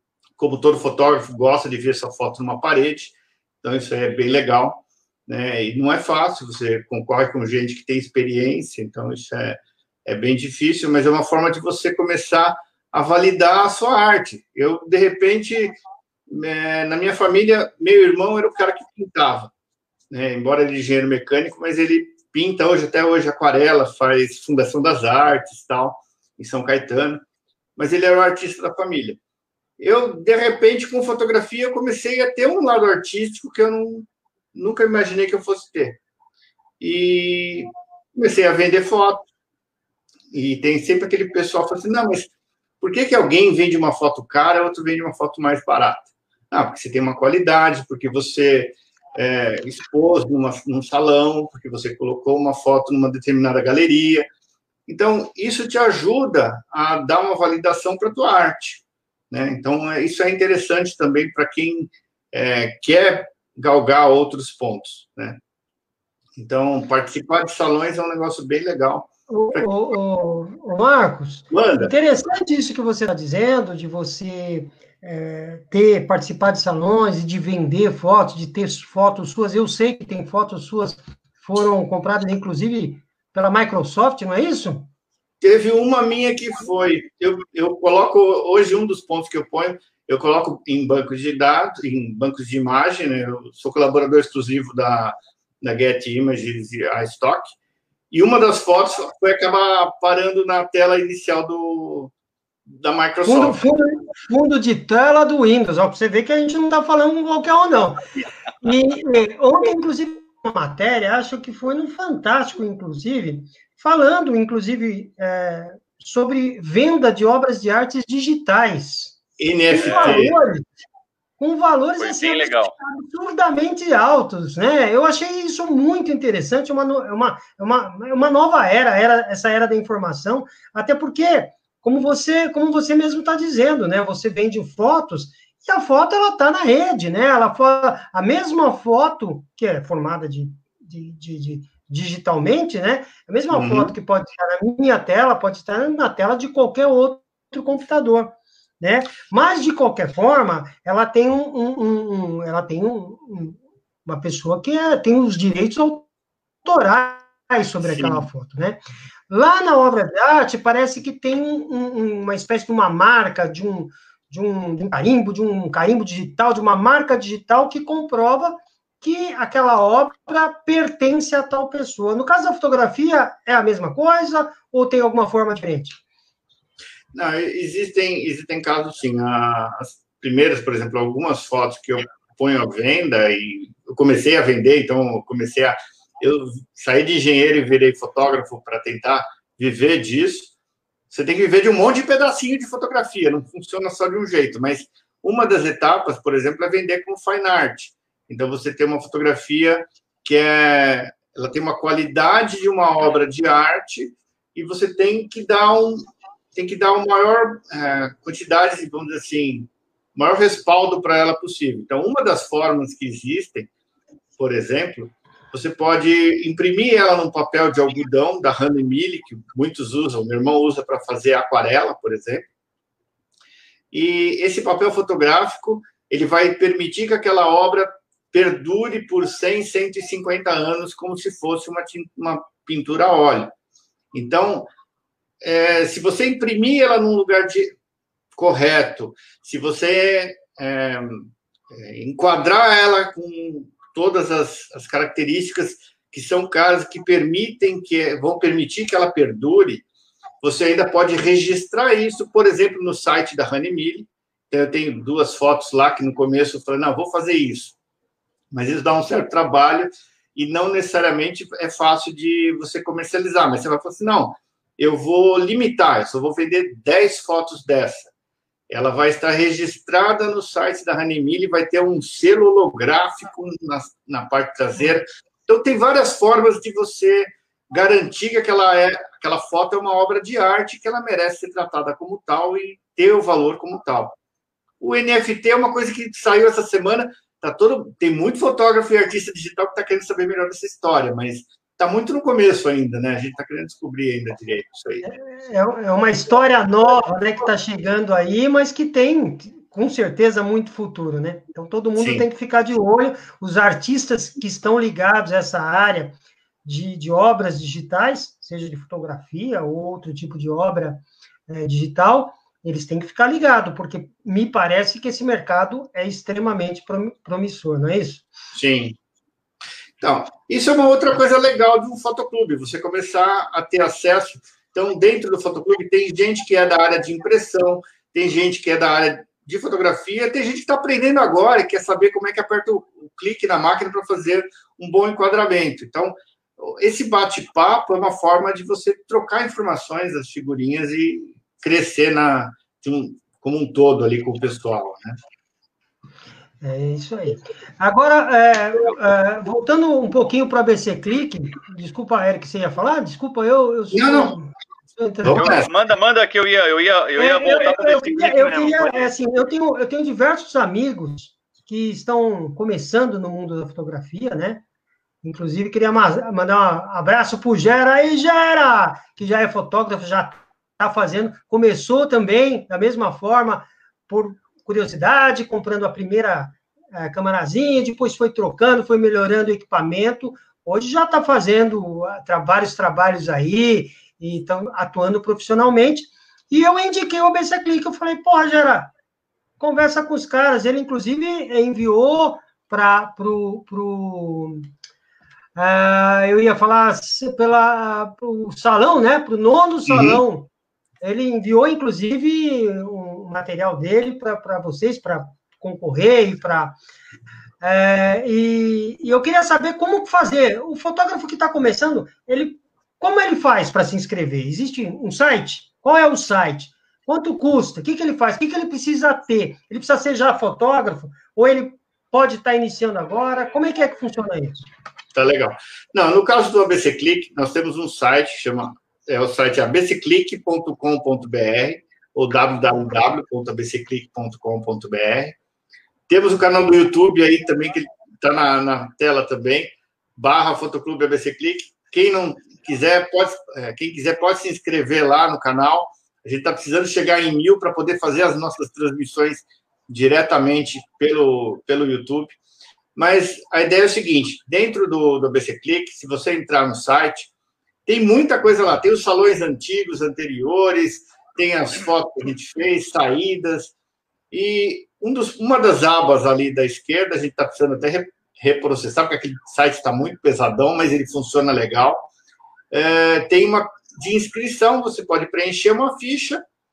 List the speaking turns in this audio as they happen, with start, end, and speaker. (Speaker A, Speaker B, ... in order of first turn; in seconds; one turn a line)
Speaker A: 0.4-15.8
Speaker A: 16.3-19.5
Speaker A: 20.1-27.2
Speaker A: 27.8-29.2
Speaker A: 29.8-36.0
Speaker A: 36.8-39.3
Speaker A: 40.3-54.3
Speaker A: 54.9-65.4
Speaker A: 66.4-69.7
Speaker B: 69.3-84.9
Speaker A: 71.5-71.9
Speaker A: 85.4-97.6
Speaker A: 98.1-102.1
Speaker A: 102.7-103.7
Speaker B: 103.3-108.0
Speaker B: 108.6-119.2
Speaker A: 119.4-120.4
Speaker B: 119.7-120.7
Speaker C: 119.8-120.2
Speaker B: 121.4-156.1
Speaker C: 122.0-122.8
Speaker A: 143.5-143.9
Speaker B: 156.7-176.0
Speaker A: 157.8-158.3
Speaker A: 177.1-190.5
Speaker A: 191.1-213.7
Speaker A: 214.4-222.5
Speaker A: 223.9-233.5
Speaker A: 234.1-234.7
Speaker A: 235.4-237.7
Speaker A: 238.3-249.8
Speaker A: 250.4-257.8
Speaker A: 258.5-268.1
Speaker A: 268.7-284.2
Speaker A: 284.8-295.1
Speaker B: 295.0-318.3
Speaker A: 302.0-302.3
Speaker A: 318.5-319.0
Speaker A: 320.0-345.2
Speaker B: 346.6-355.6
Speaker A: 353.9-354.4
Speaker A: 355.2-355.7
Speaker C: 355.3-359.1
Speaker B: 357.2-364.6
Speaker B: 365.2-388.9
Speaker B: 389.6-394.7
Speaker B: 395.6-406.8
Speaker A: 399.9-400.2
Speaker B: 407.6-424.7
Speaker A: 425.1-435.4
Speaker A: 436.1-452.4
Speaker A: 452.9-457.3
Speaker A: 457.9-463.7
Speaker A: 464.3-472.1
Speaker A: 472.7-476.4